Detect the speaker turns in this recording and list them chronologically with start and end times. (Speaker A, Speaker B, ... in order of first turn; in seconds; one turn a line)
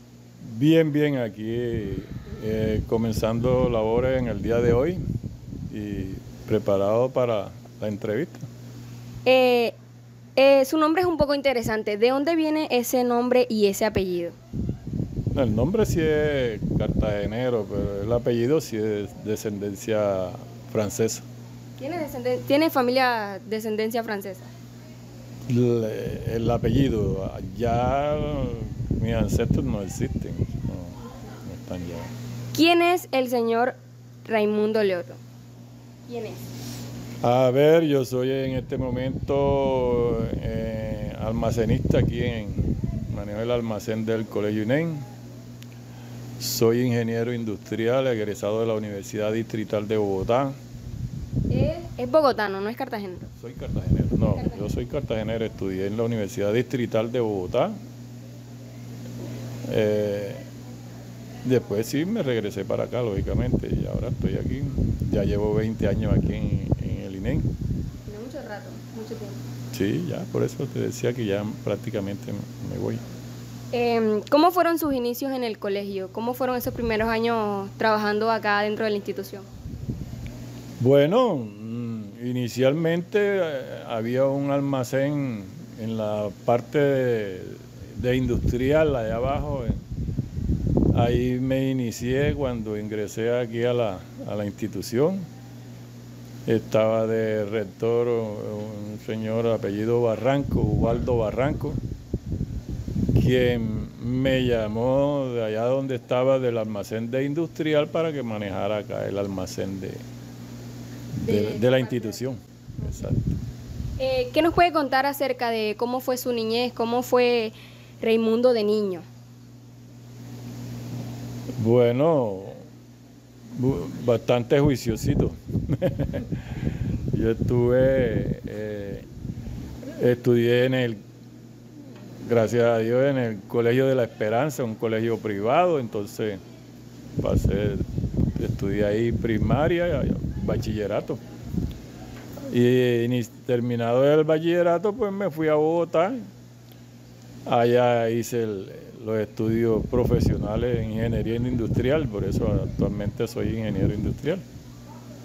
Speaker A: 0.4-5.0
Speaker A: 5.7-8.5
Speaker B: 9.2-9.8
Speaker B: 10.4-14.4
Speaker A: 15.3-21.3
Speaker B: 21.8-24.5
Speaker A: 25.5-32.1
Speaker B: 32.5-35.2
Speaker B: 36.1-36.5
Speaker A: 37.2-45.1
Speaker A: 46.4-50.6
Speaker B: 51.5-53.3
Speaker A: 53.4-57.8
Speaker B: 54.3-54.7
Speaker A: 59.6-60.5
Speaker A: 61.4-67.5
Speaker B: 68.1-69.4
Speaker A: 69.7-73.0
Speaker B: 73.7-79.5
Speaker A: 80.8-89.8
Speaker A: 90.9-95.3
Speaker A: 96.5-101.8
Speaker A: 103.2-110.0
Speaker A: 111.1-113.4
Speaker B: 111.2-112.2
Speaker B: 114.0-119.0
Speaker A: 121.5-122.7
Speaker A: 123.5-126.4
Speaker A: 127.1-129.1
Speaker A: 130.0-131.0
Speaker A: 132.2-136.4
Speaker A: 137.2-141.2
Speaker A: 142.5-146.3
Speaker A: 147.5-154.4